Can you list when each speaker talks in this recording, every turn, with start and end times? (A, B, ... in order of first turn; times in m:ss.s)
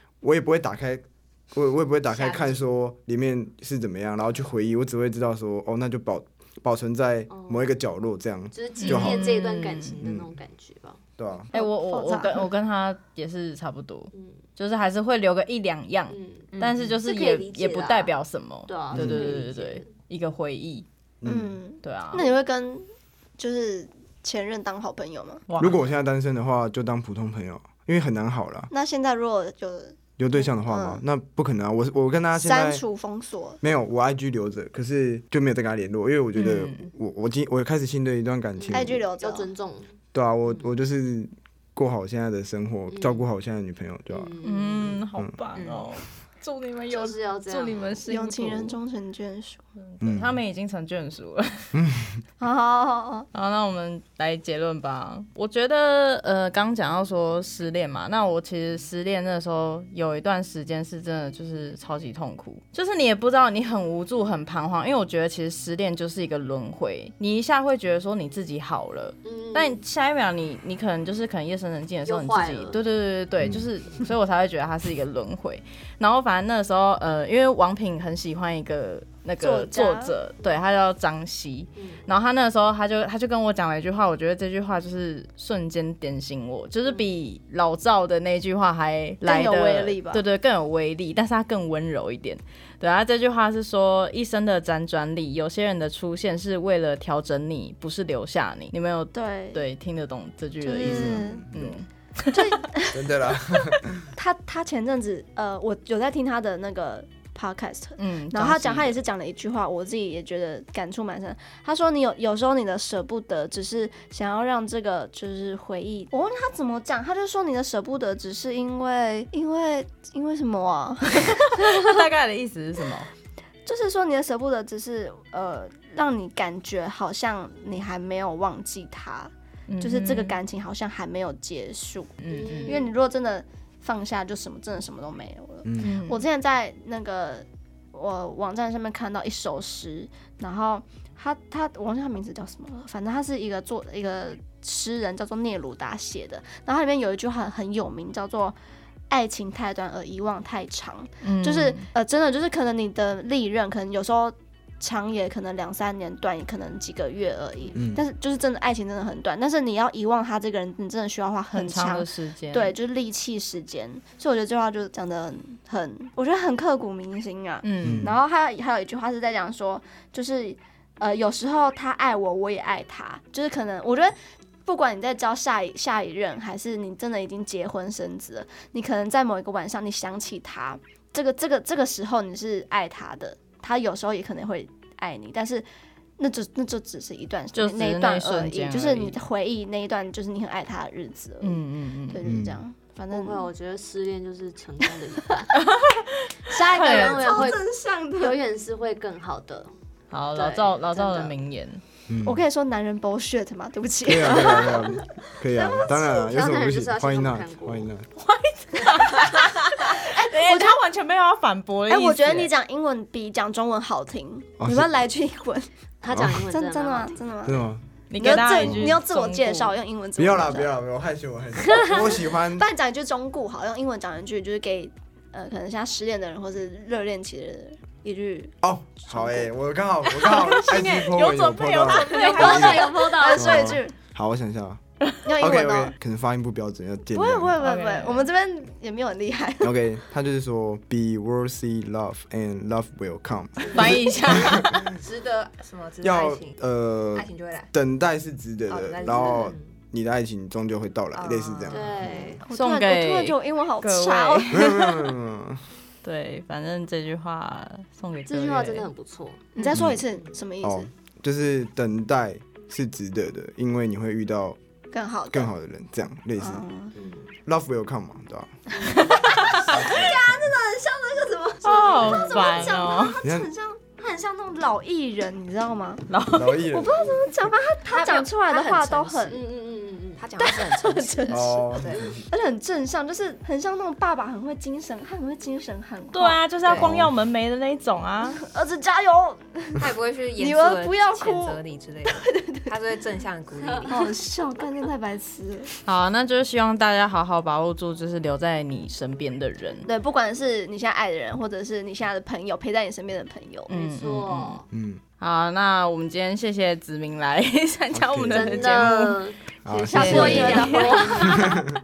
0:00.2-0:09.3 A
0:07.3-0:07.7 B
0:08.5-0:11.0 B
0:08.8-0:10.0 C
0:10.0-0:10.3 A
0:11.2-0:11.5 A
0:11.5-0:12.5 D
0:11.5-0:20.9 C
0:16.1-0:16.5 B
0:16.5-0:17.0 E
0:17.0-0:18.1 B
0:18.7-0:19.9 B
0:18.9-0:19.3 A
0:21.2-0:21.6 A
0:21.2-0:22.8 D
0:21.8-0:22.3 C
0:23.4-0:25.4 D
0:25.5-0:25.8 C
0:25.6-0:28.7 A
0:28.7-0:30.0 D
0:30.2-0:32.8 A
0:30.5-0:31.0 D
0:32.4-0:33.6 D
0:33.6-0:39.0 A
0:36.3-0:36.9 C
0:38.6-0:40.7 B
0:38.7-0:39.5 D
0:40.1-0:44.3 A
0:42.9-0:43.2 B
0:44.1-0:45.0 B
0:44.4-0:48.8 C
0:45.6-0:45.9 E
0:46.9-0:48.0 B
0:48.1-0:49.6 D
0:49.8-0:51.7 C
0:50.0-0:50.3 A
0:51.7-0:52.2 A
0:52.4-0:53.3 D
0:53.3-1:42.6 C
1:09.2-1:09.8 B
1:12.0-1:12.8 B
1:13.4-1:13.6 A
1:19.4-1:20.1 D
1:21.8-1:22.0 B
1:29.2-1:30.2 D
1:39.1-1:39.6 D
1:40.6-1:41.5 D
1:40.8-1:41.8 A
1:42.3-1:43.0 D
1:42.9-1:44.1 A
1:44.1-2:02.0 D
1:48.0-1:49.0 C
2:01.4-2:03.1 C
2:03.6-2:28.6 D
2:09.7-2:10.4 C
2:12.2-2:12.8 C
2:12.3-2:12.9 B
2:15.6-2:16.0 A
2:15.8-2:16.2 C
2:29.1-2:54.1 D
2:31.2-2:31.9 C
2:37.7-2:38.0 A
2:41.5-2:42.7 C
2:47.6-2:48.1 C
2:47.8-2:48.2 A
2:54.6-3:05.6 D
3:06.2-3:13.5 D
3:07.5-3:09.2 C
3:11.4-3:12.2 C
3:12.2-3:12.6 A
3:13.1-3:15.6 B
3:15.6-3:17.5 C
3:16.5-3:18.4 D
3:16.5-3:19.7 B
3:20.1-3:21.8 C
3:20.3-3:21.3 B
3:22.1-3:22.4 A
3:22.2-3:25.0 D
3:24.0-3:28.1 A
3:24.3-3:24.8 B
3:25.5-3:27.9 B
3:28.2-3:32.5 C
3:30.0-3:30.8 D
3:31.9-3:35.7 D
3:34.6-3:34.9 A
3:36.0-3:37.2 B
3:36.1-3:36.5 A
3:36.5-3:37.6 D
3:37.4-3:39.0 A
3:38.1-3:39.8 C
3:38.2-3:40.7 D
3:40.2-3:42.6 A
3:41.8-3:49.5 D
3:48.6-3:54.8 A
3:50.1-3:51.1 E
3:51.0-3:53.1 C
3:51.9-3:53.8 B
3:52.3-3:53.9 D
3:55.2-3:56.0 D
3:55.4-3:57.6 A
3:57.1-3:59.7 D
3:57.6-3:58.3 C
3:59.6-4:05.0 A
4:03.6-4:03.9 B
4:03.7-4:04.7 C
4:04.9-4:06.6 E
4:06.0-4:12.0 A
4:07.1-4:07.7 E
4:08.7-4:09.6 E
4:11.1-4:12.4 E
4:11.7-4:12.4 B
4:12.4-4:14.7 D
4:12.5-4:15.1 C
4:14.5-4:15.6 A
4:16.0-4:18.9 C
4:18.3-4:19.6 B
4:19.6-4:19.8 E
4:19.6-4:20.9 D
4:19.7-4:20.0 A
4:20.6-4:24.6 A
4:24.9-4:25.5 D
4:25.3-4:26.6 A
4:26.4-4:26.9 D
4:27.0-4:27.3 B
4:27.4-4:28.6 A
4:28.8-4:29.1 B
4:28.9-4:39.4 D
4:29.0-4:29.6 C
4:29.6-4:30.6 A
4:31.6-4:33.2 C
4:32.0-4:32.6 B
4:33.2-4:33.5 A
4:36.1-4:36.6 C
4:36.3-4:37.0 A
4:37.9-4:40.2 B
4:38.0-4:38.2 E
4:38.8-4:39.2 E
4:40.2-4:42.1 E
4:40.4-4:46.5 D
4:41.3-4:42.3 A
4:46.1-4:48.4 C
4:46.6-4:46.9 E
4:46.7-4:47.1 A
4:48.4-4:52.8 D
4:49.8-4:54.1 E
4:53.9-4:55.7 D
4:55.8-4:59.8 C
4:59.9-5:03.7 D
5:03.7-5:04.6 C
5:03.7-5:04.6 B
5:04.7-5:05.0 A
5:05.2-5:09.2 C
5:07.9-5:09.0 A
5:08.3-5:11.5 B
5:09.6-5:10.6 A
5:09.8-5:11.5 D
5:09.9-5:11.4 C
5:11.3-5:11.6 A